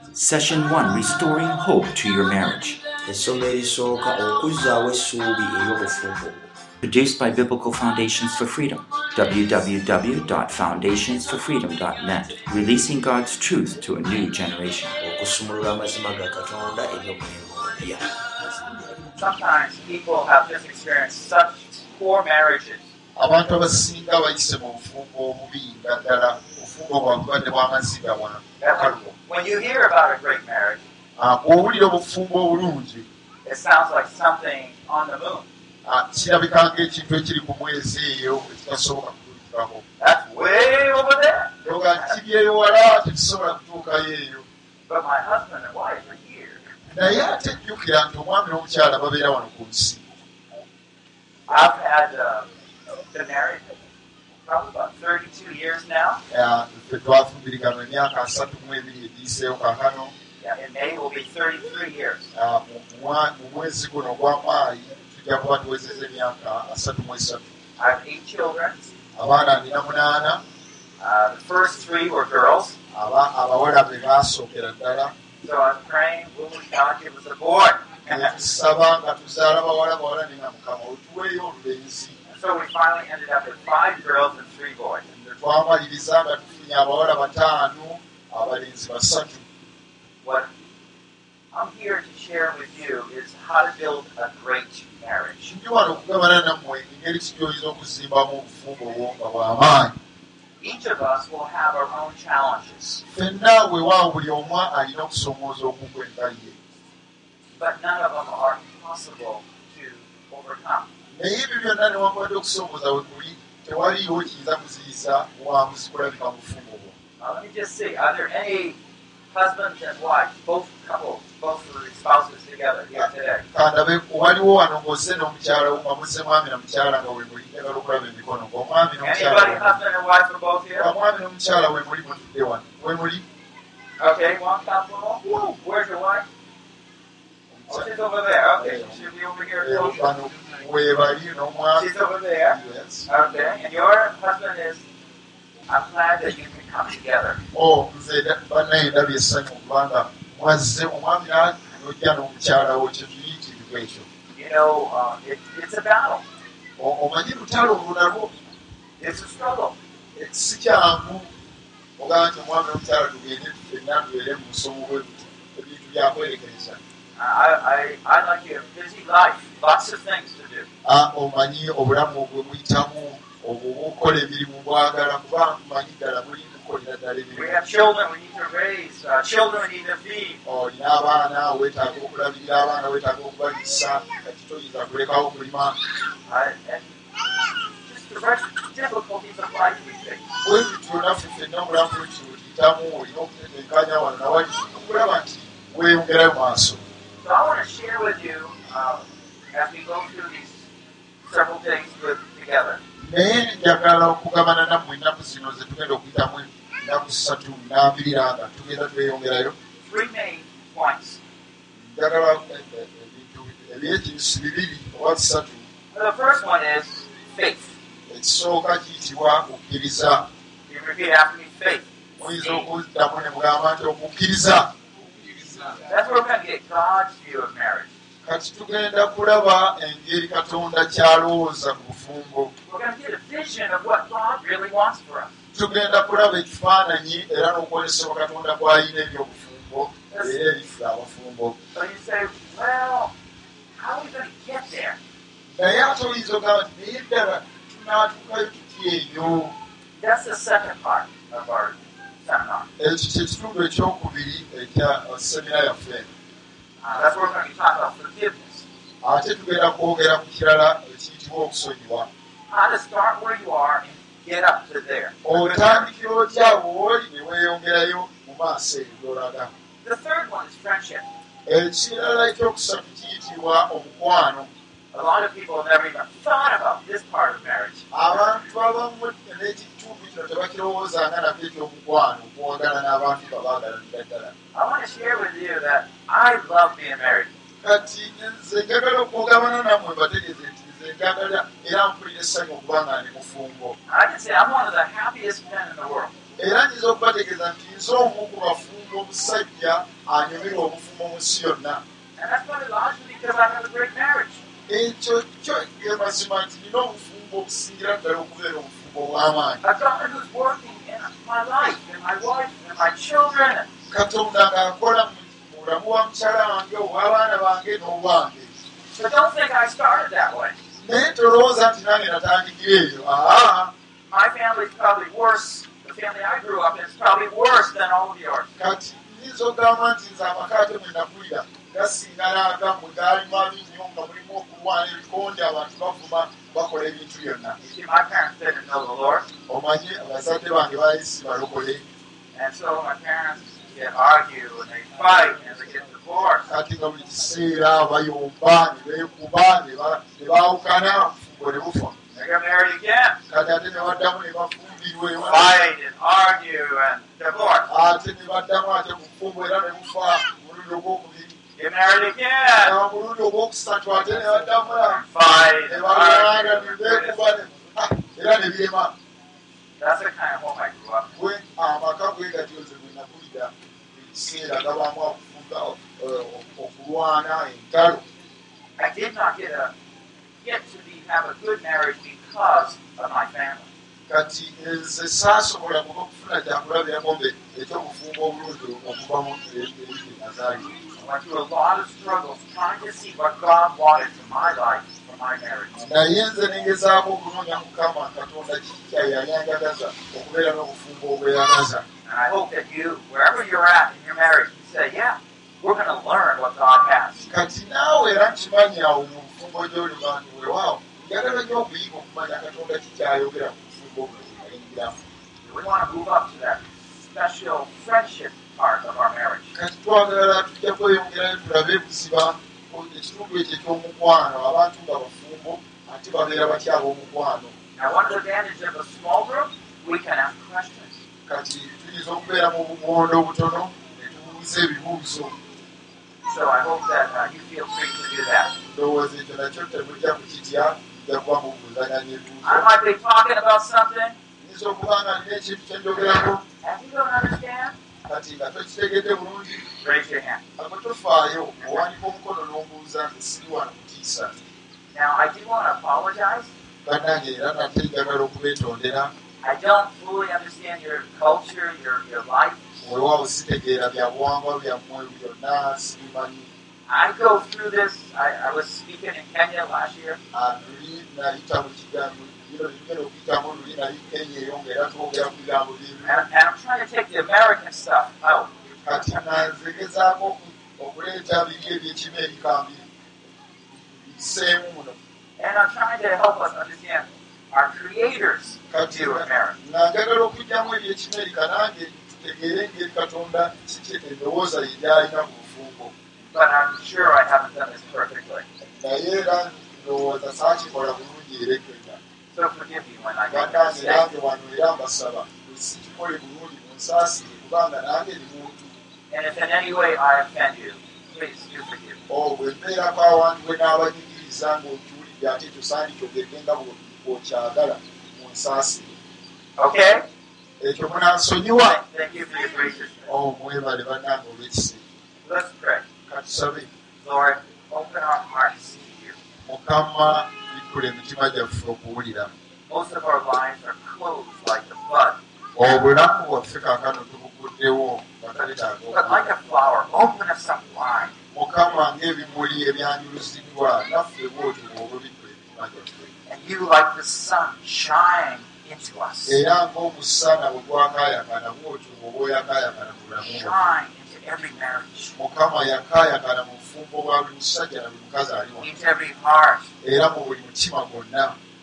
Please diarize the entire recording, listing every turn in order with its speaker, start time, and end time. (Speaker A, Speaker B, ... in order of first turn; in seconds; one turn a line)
Speaker A: 0.1-2.8
Speaker B: 3.0-6.5
Speaker A: 6.8-14.9
Speaker B: 15.0-18.0
Speaker C: 19.1-22.9
Speaker D: 23.1-29.1
Speaker C: 28.6-30.8
Speaker D: 31.2-33.1
Speaker C: 33.4-35.5
Speaker D: 35.8-39.8
Speaker C: 40.0-42.1
Speaker D: 41.6-44.5
Speaker C: 44.9-46.7
Speaker D: 46.9-50.0
Speaker C: 51.5-52.5
Speaker C: 53.1-53.7
Speaker C: 54.4-56.2
Speaker D: 56.3-60.1
Speaker C: 60.4-62.3
Speaker D: 62.3-67.5
Speaker C: 67.8-68.9
Speaker D: 69.1-70.4
Speaker C: 71.0-72.8
Speaker D: 72.9-75.1
Speaker C: 75.4-78.3
Speaker D: 78.0-82.2
Speaker C: 82.3-85.0
Speaker D: 85.1-89.5
Speaker C: 90.2-90.5
Speaker C: 91.5-95.5
Speaker D: 95.5-100.0
Speaker C: 100.6-103.0
Speaker D: 103.1-106.6
Speaker C: 107.6-110.9
Speaker D: 111.1-117.0
Speaker C: 117.2-118.8
Speaker C: 119.3-123.4
Speaker D: 122.9-129.8
Speaker C: 129.0-130.9
Speaker D: 130.8-133.2
Speaker C: 134.0-136.2
Speaker D: 137.5-137.9
Speaker C: 137.7-140.1
Speaker D: 138.5-141.9
Speaker C: 141.7-144.8
Speaker D: 142.4-143.1
Speaker C: 145.7-147.4
Speaker D: 147.5-154.1
Speaker C: 154.3-156.2
Speaker D: 156.8-158.3
Speaker C: 159.0-159.8
Speaker D: 160.1-161.3
Speaker D: 162.0-166.8
Speaker C: 167.2-170.7
Speaker D: 170.8-177.6
Speaker C: 177.3-180.4
Speaker D: 180.4-185.8
Speaker C: 186.3-186.9
Speaker C: 187.8-190.3
Speaker D: 190.4-196.8
Speaker C: 197.2-200.7
Speaker C: 201.2-202.8
Speaker D: 203.0-209.5
Speaker C: 209.8-211.2
Speaker D: 211.7-215.7
Speaker C: 215.9-217.7
Speaker D: 218.1-220.3
Speaker C: 220.7-222.7
Speaker D: 222.2-224.8
Speaker C: 225.7-227.9
Speaker D: 228.2-232.5
Speaker C: 232.7-235.3
Speaker D: 235.5-241.6
Speaker C: 240.1-240.4
Speaker C: 241.7-243.1
Speaker C: 243.8-245.0
Speaker D: 245.5-249.6
Speaker C: 250.0-252.7
Speaker D: 252.8-256.1
Speaker C: 256.8-258.6
Speaker D: 259.0-262.1
Speaker C: 262.5-265.9
Speaker D: 265.2-269.5
Speaker C: 269.8-271.0
Speaker D: 271.4-274.5
Speaker C: 274.9-278.2
Speaker D: 277.9-284.3
Speaker C: 284.5-287.3
Speaker D: 287.6-293.8
Speaker C: 293.9-296.1
Speaker D: 296.4-301.8
Speaker C: 302.2-304.4
Speaker D: 304.7-309.6
Speaker C: 309.6-313.7
Speaker D: 313.9-318.6
Speaker C: 318.9-320.6
Speaker D: 320.8-323.7
Speaker C: 324.1-328.5
Speaker D: 328.6-337.6
Speaker C: 337.6-339.3
Speaker D: 339.5-341.8
Speaker C: 342.3-346.5
Speaker D: 346.4-352.0
Speaker C: 352.1-353.2
Speaker D: 353.3-355.6
Speaker C: 355.2-357.7
Speaker D: 357.7-361.4
Speaker C: 361.6-362.8
Speaker D: 362.6-368.9
Speaker C: 364.2-367.2
Speaker C: 369.8-371.1
Speaker D: 371.1-378.1
Speaker C: 378.8-379.7
Speaker C: 380.4-383.7
Speaker D: 384.1-390.8
Speaker C: 390.9-395.9
Speaker D: 395.8-401.8
Speaker C: 402.1-407.2
Speaker D: 407.3-415.0
Speaker C: 415.4-419.5
Speaker D: 419.5-427.5
Speaker C: 427.8-431.0
Speaker D: 431.3-435.4
Speaker C: 436.2-438.5
Speaker D: 438.6-442.7
Speaker C: 442.4-444.2
Speaker D: 444.4-446.4
Speaker C: 446.6-447.8
Speaker D: 448.0-449.7
Speaker C: 449.8-450.4
Speaker D: 450.6-454.4
Speaker C: 454.9-456.5
Speaker D: 456.8-459.1
Speaker C: 459.4-462.6
Speaker D: 462.8-466.5
Speaker C: 466.9-470.2
Speaker D: 470.3-476.2
Speaker C: 476.0-479.2
Speaker D: 478.8-482.9
Speaker D: 483.7-485.0
Speaker C: 485.4-489.6
Speaker D: 488.7-495.9
Speaker C: 496.3-498.4
Speaker D: 498.6-502.0
Speaker C: 502.3-504.1
Speaker D: 503.3-508.7
Speaker C: 509.1-512.0
Speaker D: 512.1-519.0
Speaker C: 519.6-520.0
Speaker D: 520.6-521.8
Speaker C: 521.6-523.1
Speaker D: 523.0-524.8
Speaker C: 525.2-525.9
Speaker D: 526.0-526.7
Speaker C: 527.0-529.1
Speaker D: 529.4-532.3
Speaker C: 532.7-535.2
Speaker D: 535.5-539.3
Speaker C: 538.9-541.1
Speaker D: 541.3-546.1
Speaker C: 546.3-549.4
Speaker D: 549.2-553.6
Speaker C: 553.2-555.1
Speaker D: 555.1-558.8
Speaker C: 558.6-559.7
Speaker D: 559.8-561.4